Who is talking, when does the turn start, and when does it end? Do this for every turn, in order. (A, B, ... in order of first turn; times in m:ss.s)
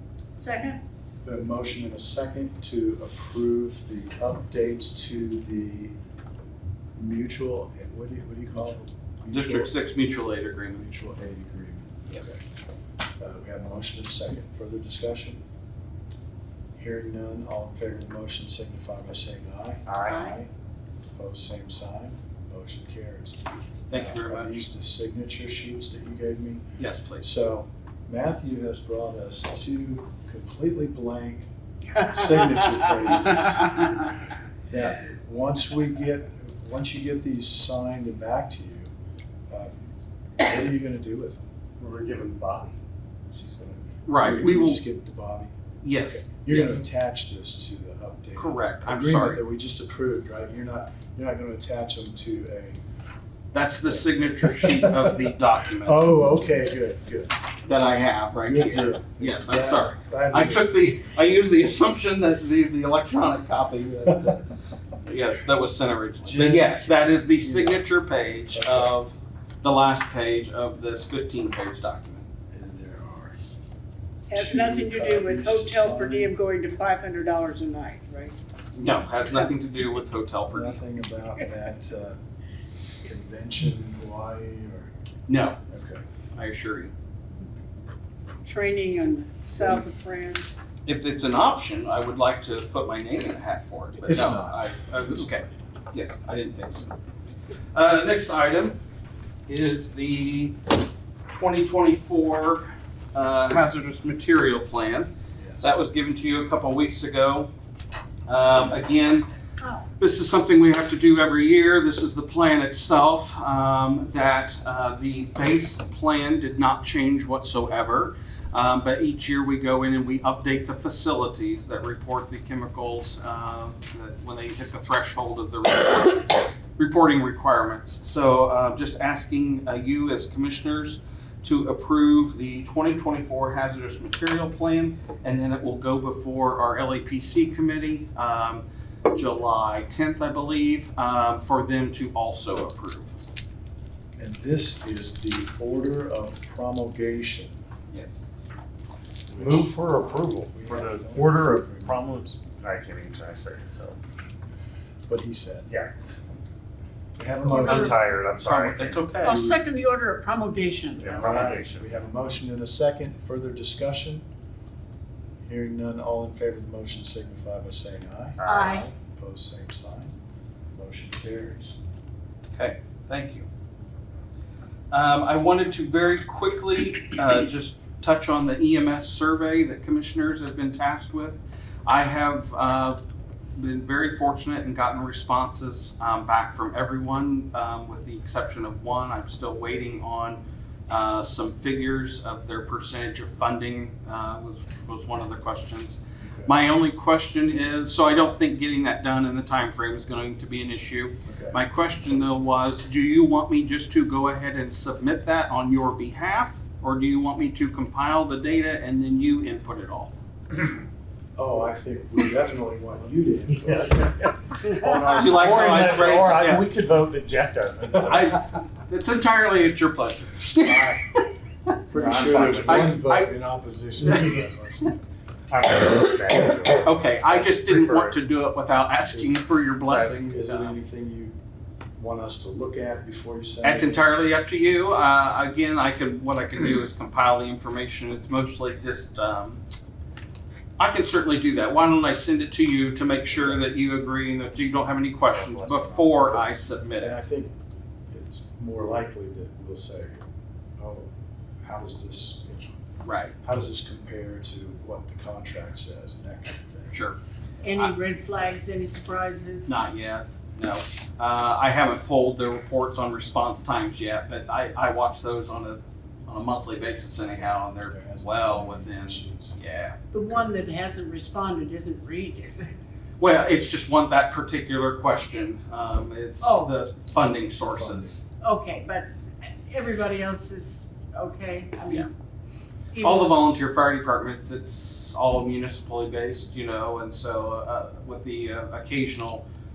0:00.4-0:00.8 A
0:01.2-0:05.9 B
0:07.0-0:09.7 B
0:09.3-0:10.8 C
0:10.7-0:12.4 B
0:13.2-0:15.4 B
0:16.8-0:20.5 B
0:19.8-0:20.2 D
0:20.0-0:20.4 A
0:21.1-0:23.4 B
0:23.9-0:24.6 C
0:23.9-0:26.6 B
0:26.8-0:27.2 C
0:27.2-0:34.0 B
0:31.9-0:33.7 A
0:34.7-0:38.9 B
0:39.5-0:39.8 B
0:40.4-0:41.4 B
0:41.8-0:42.7 D
0:43.3-0:43.9 D
0:44.0-0:44.8 C
0:44.2-0:52.8 B
0:45.8-0:46.8 C
0:48.4-0:49.4 C
0:53.5-0:56.1 C
0:53.8-0:55.1 B
0:55.8-0:57.3 B
0:57.6-1:04.4 C
0:58.4-1:00.7 B
1:03.8-1:04.4 B
1:05.0-1:12.2 C
1:06.2-1:07.9 B
1:08.5-1:08.9 B
1:12.5-1:13.3 B
1:14.3-1:18.4 A
1:14.3-1:16.3 B
1:18.7-1:20.8 C
1:20.5-1:22.2 B
1:23.0-1:24.9 B
1:25.3-1:25.6 C
1:25.7-1:26.0 B
1:26.3-1:26.9 C
1:28.4-1:30.6 A
1:30.8-1:36.9 C
1:34.0-1:35.6 B
1:37.7-1:38.8 C
1:39.5-1:40.6 C
1:41.3-1:47.5 C
1:45.4-1:45.7 B
1:48.3-1:49.3 C
1:50.0-2:23.1 C
2:24.2-2:27.5 B
2:27.9-2:28.2 C
2:29.3-2:29.8 B
2:29.4-2:34.0 D
2:30.5-2:32.2 B
2:35.1-2:35.7 B
2:37.2-2:38.0 B
2:37.5-2:38.0 A
2:37.5-2:39.2 D
2:38.4-2:39.5 C
2:39.2-2:41.3 A
2:39.2-2:39.6 B
2:41.0-2:41.9 D
2:41.0-2:44.2 B
2:45.4-2:50.1 B
2:48.4-2:48.9 D
2:48.4-2:48.9 A
2:50.7-2:51.8 B
2:52.5-2:53.5 C
2:54.9-3:03.0 C
3:03.6-3:30.1 C
3:16.2-3:16.5 B
3:21.2-3:21.6 B
3:31.4-3:36.3 B
3:33.6-3:34.3 D
3:34.8-3:36.7 C
3:35.0-3:38.4 D
3:38.0-3:41.2 C
3:40.5-3:41.0 B
3:41.9-3:44.9 B
3:41.9-3:43.0 D
3:42.6-3:43.3 C
3:45.5-3:48.2 D
3:46.8-3:50.8 C
3:49.1-3:49.4 B
3:49.9-3:50.2 D
3:50.2-3:51.4 B
3:52.0-3:54.0 B
3:53.6-3:59.6 C
4:00.8-4:07.1 C
4:03.3-4:03.7 B
4:05.3-4:06.1 D
4:06.2-4:06.4 B
4:07.0-4:07.5 B
4:08.1-4:10.2 B
4:10.8-4:11.1 B
4:11.6-4:12.8 B
4:13.0-4:13.3 C
4:13.4-4:17.0 B
4:16.9-4:17.9 C
4:17.6-4:19.8 A
4:19.7-4:30.0 C
4:27.8-4:29.5 B
4:30.1-4:32.7 A
4:33.2-4:38.2 C
4:36.4-4:36.7 A
4:37.6-4:38.2 B
4:38.4-4:39.1 A
4:39.6-4:42.1 A
4:42.9-4:43.4 A
4:43.0-4:49.4 C